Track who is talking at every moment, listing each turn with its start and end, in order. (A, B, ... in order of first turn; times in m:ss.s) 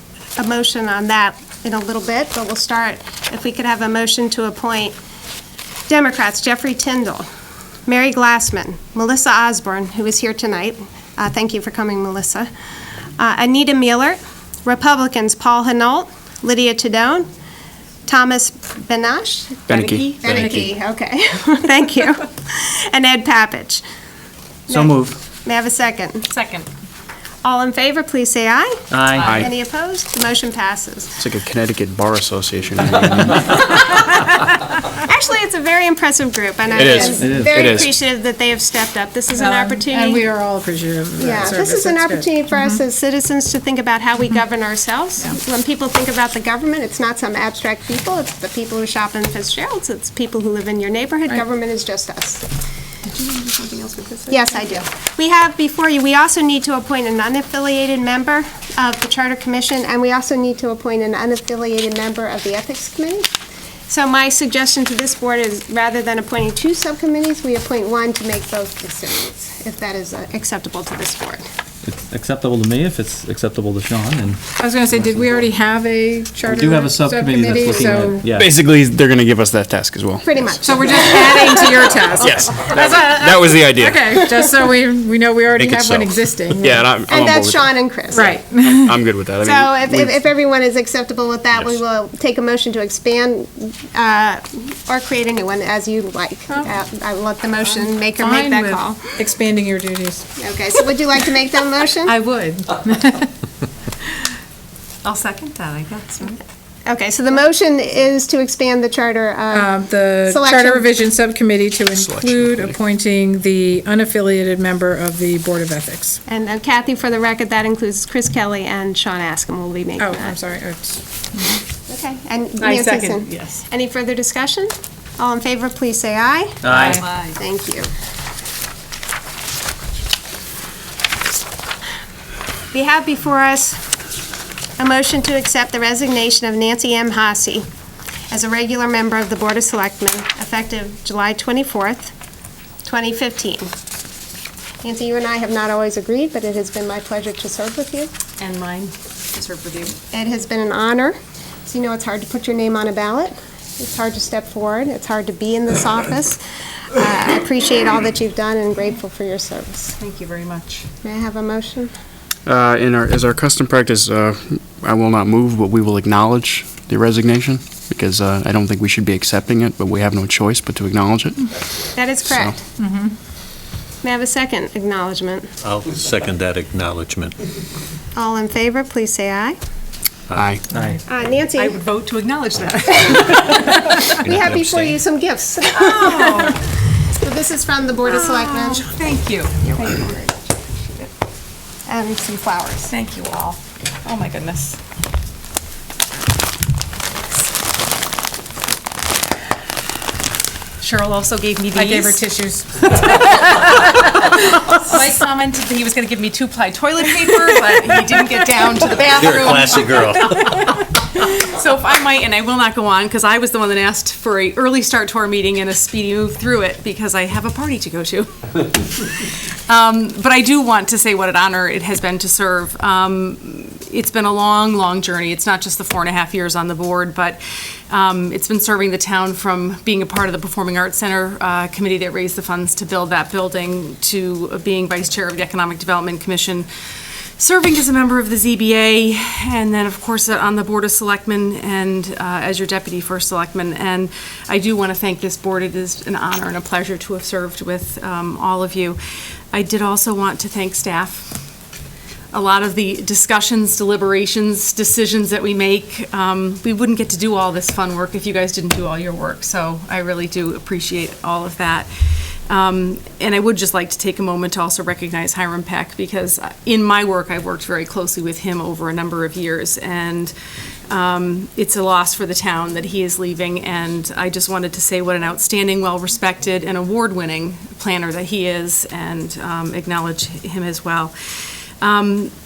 0:00.4-0:05.0 A
0:05.9-0:07.3 A
0:07.9-0:12.5 A
0:13.2-0:17.3 A
0:18.1-0:23.8 A
0:19.7-0:20.7 B
0:20.3-0:20.5 C
0:24.7-0:26.3 A
0:24.7-0:25.2 D
0:26.3-0:26.7 E
0:27.4-0:31.2 A
0:28.9-0:29.3 D
0:29.2-0:29.5 B
0:31.2-0:33.7 B
0:34.9-0:40.3 A
0:36.7-0:37.9 B
0:37.2-0:37.6 D
0:39.4-0:42.4 C
0:41.2-0:52.5 A
0:53.0-0:54.8 E
0:54.3-1:03.3 A
1:03.9-1:11.4 A
1:11.8-1:15.4 D
1:14.6-1:18.3 C
1:16.5-1:18.5 D
1:18.3-1:20.4 B
1:20.2-1:22.3 A
1:20.6-1:26.8 C
1:22.2-1:24.5 B
1:25.6-1:30.2 B
1:27.1-1:28.4 A
1:28.2-1:29.0 C
1:29.4-1:39.2 A
1:38.2-1:40.3 C
1:40.4-1:42.2 A
1:42.6-1:43.3 C
1:45.0-1:46.4 E
1:46.9-1:50.9 A
1:49.5-1:56.2 C
1:51.9-1:52.8 B
1:56.3-2:00.4 A
2:00.0-2:01.0 C
2:01.9-2:07.9 A
2:02.6-2:03.6 E
2:06.6-2:07.0 D
2:06.6-2:07.4 E
2:12.7-2:13.8 A
2:14.8-2:17.7 A
2:18.3-2:22.1 A
2:22.8-2:23.7 A
2:24.8-2:28.1 A
2:28.4-2:30.0 E
2:30.1-2:36.4 A
2:36.9-2:40.0 A
2:40.0-2:40.8 E
2:41.0-2:41.9 A
2:42.5-2:51.5 B
2:52.0-2:52.6 A
2:52.2-2:52.5 B
2:52.8-2:53.1 C
2:54.0-2:55.5 A
2:55.6-2:57.4 F
2:58.2-2:59.6 A
3:00.4-3:00.6 B
3:01.1-3:01.8 A
3:01.6-3:04.2 E
3:04.1-3:05.0 F
3:04.1-3:08.9 A
3:05.7-3:06.6 E
3:08.1-3:10.3 E
3:09.6-3:10.2 A
3:11.9-3:12.9 A
3:12.9-3:14.8 E
3:20.8-3:22.2 E
3:21.7-3:23.1 C
3:23.1-3:56.7 E
3:29.0-3:30.6 F
3:57.4-4:09.0 E
4:09.5-4:11.4 E
4:12.3-4:21.9 E
4:22.5-4:30.3 E
4:30.9-4:41.1 E
4:41.8-4:42.3 E